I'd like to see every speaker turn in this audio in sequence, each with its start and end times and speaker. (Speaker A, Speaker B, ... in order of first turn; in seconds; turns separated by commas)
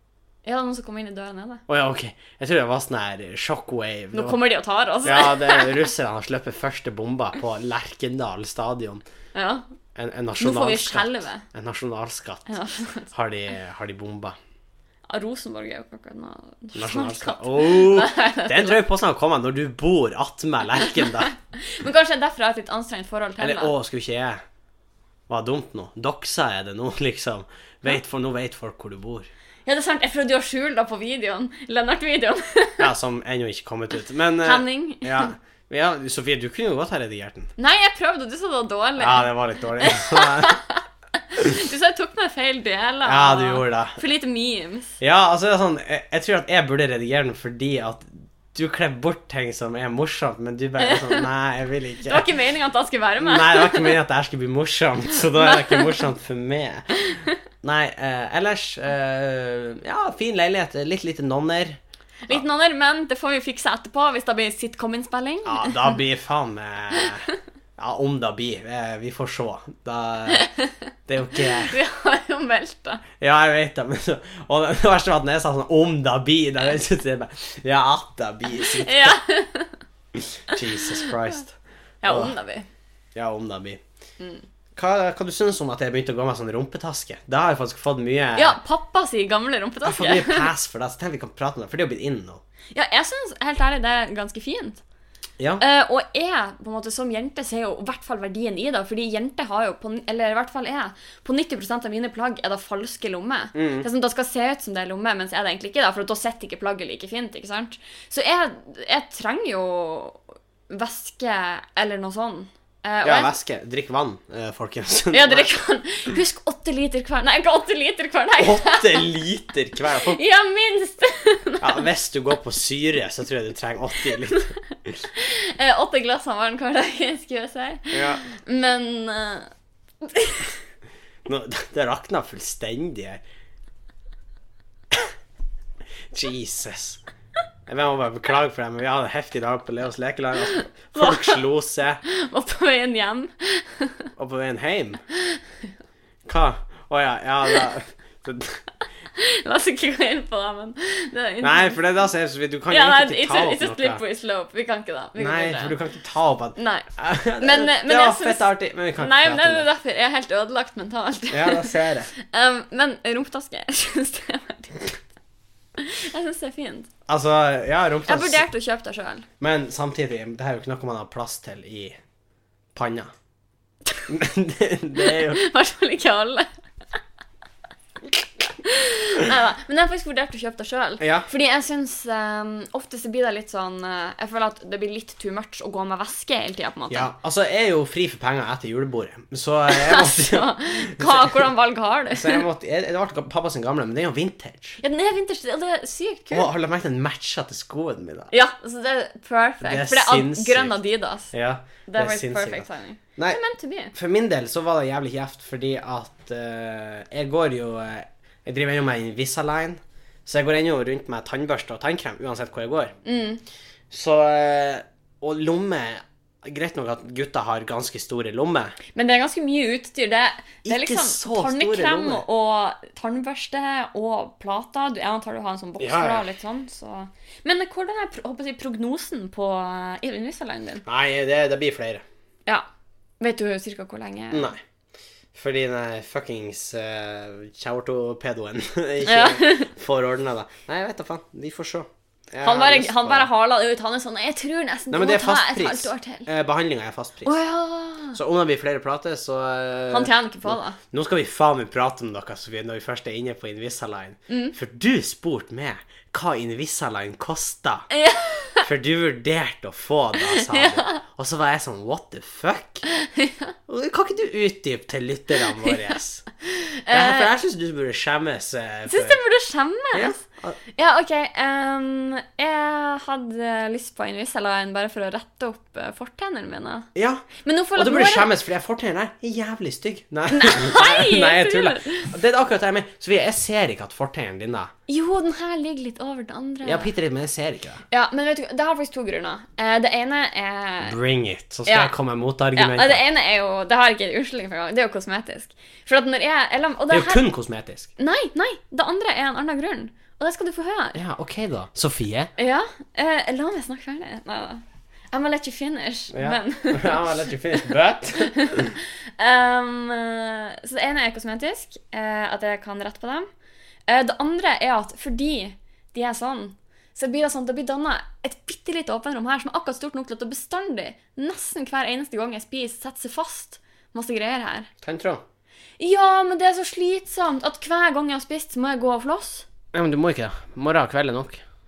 Speaker A: 0.5-1.6, Speaker B: 1.7-4.4, Speaker A: 4.1-5.8, Speaker B: 5.0-9.0, Speaker A: 9.3-9.7, Speaker B: 10.0-12.5, Speaker A: 10.4-11.4, Speaker A: 12.5-13.1, Speaker B: 13.1-14.4, Speaker A: 15.1-18.8, Speaker B: 16.8-21.3, Speaker A: 20.9-23.7, Speaker B: 23.4-24.4, Speaker B: 25.3-29.3, Speaker A: 29.7-32.9, Speaker B: 32.8-37.5, Speaker A: 34.4-35.3, Speaker A: 37.6-39.3, Speaker B: 39.0-40.6, Speaker A: 39.8-45.0, Speaker B: 43.0-44.0, Speaker B: 45.0-52.3, Speaker A: 50.8-51.2, Speaker A: 52.0-54.0, Speaker B: 53.2-57.0, Speaker A: 55.4-56.1, Speaker A: 57.0-57.4, Speaker B: 57.6-62.4, Speaker A: 62.3-66.0, Speaker B: 65.5-70.5, Speaker A: 70.3-70.7, Speaker B: 71.1-71.8, Speaker A: 71.3-73.0, Speaker B: 73.2-79.2, Speaker A: 78.5-79.8, Speaker B: 80.2-81.5, Speaker A: 82.0-82.7, Speaker B: 82.1-82.4, Speaker B: 83.2-83.8, Speaker A: 84.2-84.4, Speaker B: 84.8-88.6, Speaker A: 88.4-90.5, Speaker B: 89.8-92.4, Speaker A: 92.7-94.8, Speaker A: 95.6-113.3, Speaker B: 103.5-103.9, Speaker B: 113.0-115.5, Speaker A: 115.1-119.1, Speaker B: 118.4-120.2, Speaker A: 119.9-121.9, Speaker B: 121.6-125.0, Speaker A: 124.1-124.4, Speaker A: 125.1-129.5, Speaker B: 127.9-128.2, Speaker A: 130.0-130.5, Speaker B: 131.2-133.2, Speaker B: 136.1-137.0, Speaker B: 137.7-142.0, Speaker A: 140.9-141.4, Speaker A: 142.1-144.1, Speaker B: 144.2-145.0, Speaker A: 145.1-145.4, Speaker B: 146.3-148.7, Speaker A: 149.2-151.8, Speaker B: 151.4-154.0, Speaker A: 152.7-155.8, Speaker B: 155.2-159.7, Speaker A: 156.6-156.9, Speaker A: 157.4-165.0, Speaker B: 161.3-162.1, Speaker A: 165.8-166.9, Speaker B: 167.1-168.5, Speaker A: 168.1-169.3, Speaker B: 169.4-172.0, Speaker B: 172.8-173.1, Speaker B: 174.1-175.4, Speaker A: 175.0-176.5, Speaker A: 178.4-187.1, Speaker B: 181.0-181.3, Speaker B: 186.9-191.5, Speaker A: 189.7-192.4, Speaker B: 192.1-194.8, Speaker A: 194.8-196.5, Speaker B: 196.3-198.3, Speaker A: 198.3-201.3, Speaker B: 199.6-200.8, Speaker B: 201.3-203.4, Speaker A: 201.9-203.9, Speaker B: 203.9-213.0, Speaker A: 213.1-213.4, Speaker B: 213.9-218.8, Speaker A: 218.9-230.8, Speaker B: 220.6-222.2, Speaker B: 225.8-226.2, Speaker B: 230.9-232.0, Speaker A: 233.2-234.5, Speaker B: 234.3-234.6, Speaker B: 235.3-243.3, Speaker A: 239.1-239.7, Speaker A: 242.4-246.3, Speaker B: 244.9-247.3, Speaker A: 247.2-248.2, Speaker B: 248.1-257.9, Speaker A: 249.9-250.8, Speaker A: 254.3-254.6, Speaker A: 257.9-258.7, Speaker B: 258.6-262.9, Speaker A: 260.2-261.0, Speaker A: 262.9-263.5, Speaker B: 263.7-266.3, Speaker A: 265.5-267.3, Speaker B: 266.9-269.2, Speaker A: 268.9-270.2, Speaker B: 269.9-270.6, Speaker A: 270.8-278.3, Speaker B: 276.9-284.7, Speaker A: 280.3-282.1, Speaker A: 284.9-286.9, Speaker B: 286.6-287.8, Speaker A: 287.9-291.0, Speaker B: 290.8-293.0, Speaker A: 291.7-291.9, Speaker A: 292.6-297.2, Speaker B: 296.9-297.9, Speaker A: 298.0-301.0, Speaker B: 300.9-302.3, Speaker A: 302.4-313.3, Speaker B: 306.1-308.8, Speaker A: 313.9-324.7, Speaker B: 324.8-325.2, Speaker A: 325.8-329.5, Speaker B: 329.7-331.4